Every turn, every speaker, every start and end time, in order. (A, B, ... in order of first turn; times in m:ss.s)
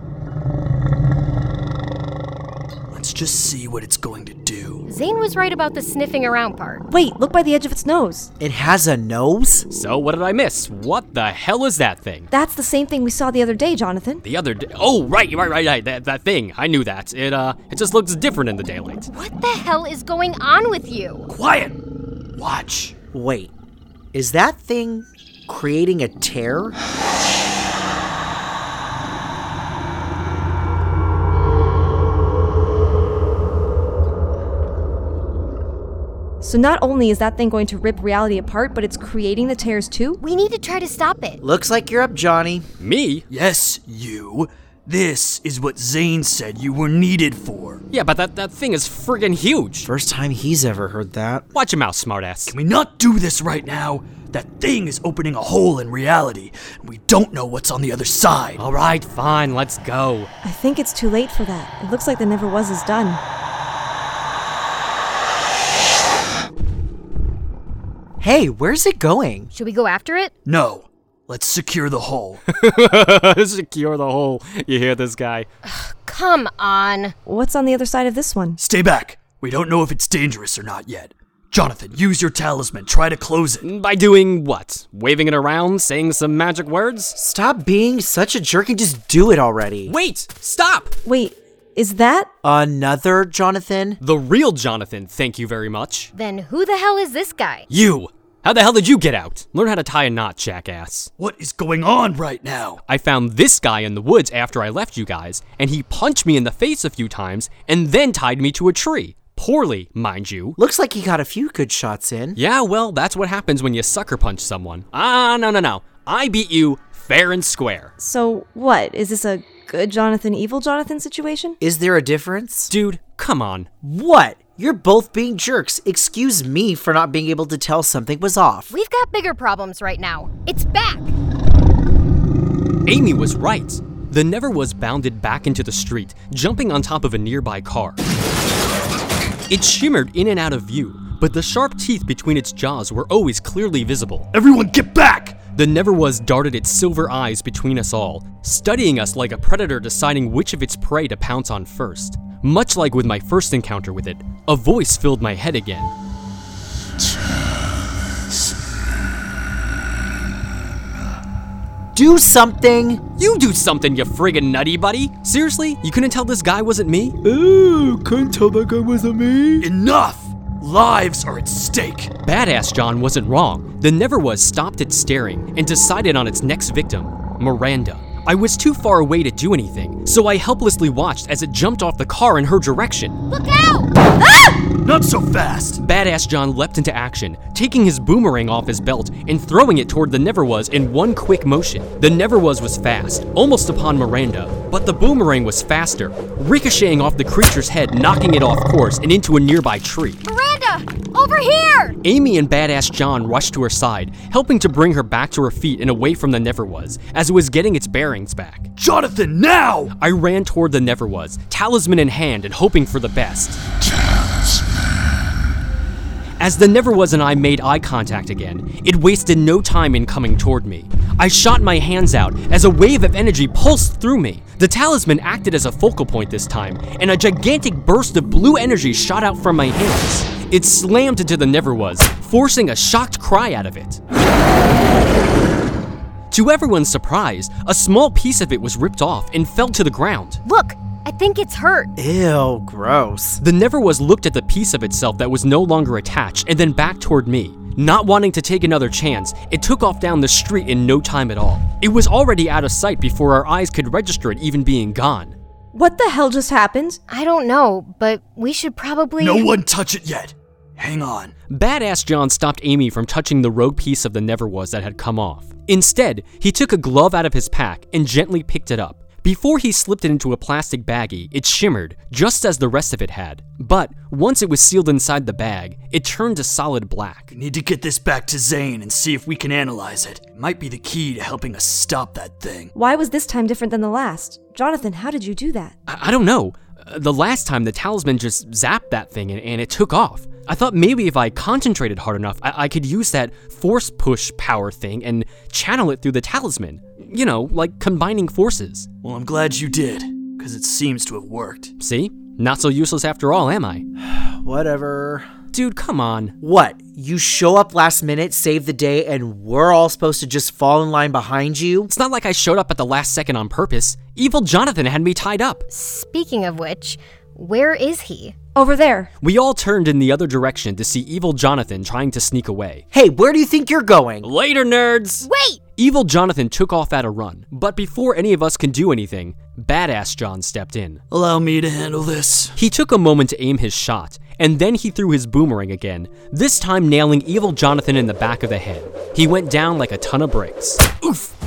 0:02.9-0:04.9 A
0:04.9-0:06.8 B
0:06.9-0:08.3 C
0:08.4-0:09.7 D
0:09.7-0:12.3 E
0:12.3-0:14.2 C
0:14.2-0:19.1 E
0:19.1-0:21.3 B
0:21.3-0:21.8 A
0:22.4-0:22.9 A
0:23.1-0:23.5 D
0:24.1-0:26.8 D
0:36.4-0:40.2 C
0:40.2-0:41.4 B
0:41.4-0:42.6 D
0:42.8-0:43.3 E
0:43.3-0:47.8 A
0:47.9-0:49.9 E
0:49.9-0:51.5 D
0:51.5-0:52.5 E
0:52.5-0:58.6 A
0:58.6-1:00.3 E
1:00.4-1:03.2 C
1:08.2-1:09.5 D
1:09.6-1:10.3 B
1:10.4-1:12.4 A
1:12.5-1:15.5 E
1:15.6-1:17.1 B
1:17.3-1:18.6 C
1:18.6-1:23.7 A
1:23.6-1:27.2 E
1:27.2-1:30.0 D
1:29.9-1:31.0 E
1:31.0-1:32.3 C
1:32.4-1:34.0 D
1:34.0-1:36.1 E
1:36.1-1:37.7 B
1:37.7-1:41.1 E
1:41.2-1:42.8 A
1:42.8-1:50.6 E
1:50.6-1:52.4 D
1:52.4-1:57.9 E
1:58.0-2:01.6 C
2:01.6-2:02.7 D
2:02.7-2:03.7 E
2:03.8-2:08.7 D
2:08.7-2:11.2 B
2:12.9-2:18.0 E
2:19.5-2:24.3 E
2:24.3-2:25.5 A
2:25.5-2:35.9 E
2:41.9-2:43.0 D
2:43.2-2:47.2 E
2:47.2-2:49.7 D
2:49.6-2:52.1 A
2:52.2-3:03.2 E
3:03.3-3:04.6 B
3:04.8-3:05.8 A
3:05.8-3:20.2 E
3:20.2-3:22.0 B
3:22.0-3:28.7 E
3:28.8-3:29.9 A
3:30.0-3:33.6 E
3:36.4-3:54.0 E
3:56.3-4:00.4 E
4:00.4-4:01.9 B
4:02.0-4:03.4 D
4:03.4-4:15.4 E
4:15.7-4:17.0 C
4:17.1-4:19.5 B
4:19.2-4:21.3 A
4:21.5-4:37.3 E
4:37.3-4:42.7 A
4:42.8-4:45.8 C
4:45.9-4:58.9 E
4:59.0-5:01.8 A
5:01.8-5:03.8 E
5:04.0-5:05.3 D
5:05.5-5:06.4 E
5:06.4-5:11.9 D
5:11.9-5:15.7 E
5:15.7-5:18.4 B
5:18.6-5:19.1 C
5:19.2-5:22.8 E
5:22.9-5:24.3 D
5:24.2-5:31.0 E
5:25.2-5:25.6 B
5:31.1-5:32.6 A
5:32.6-5:41.2 E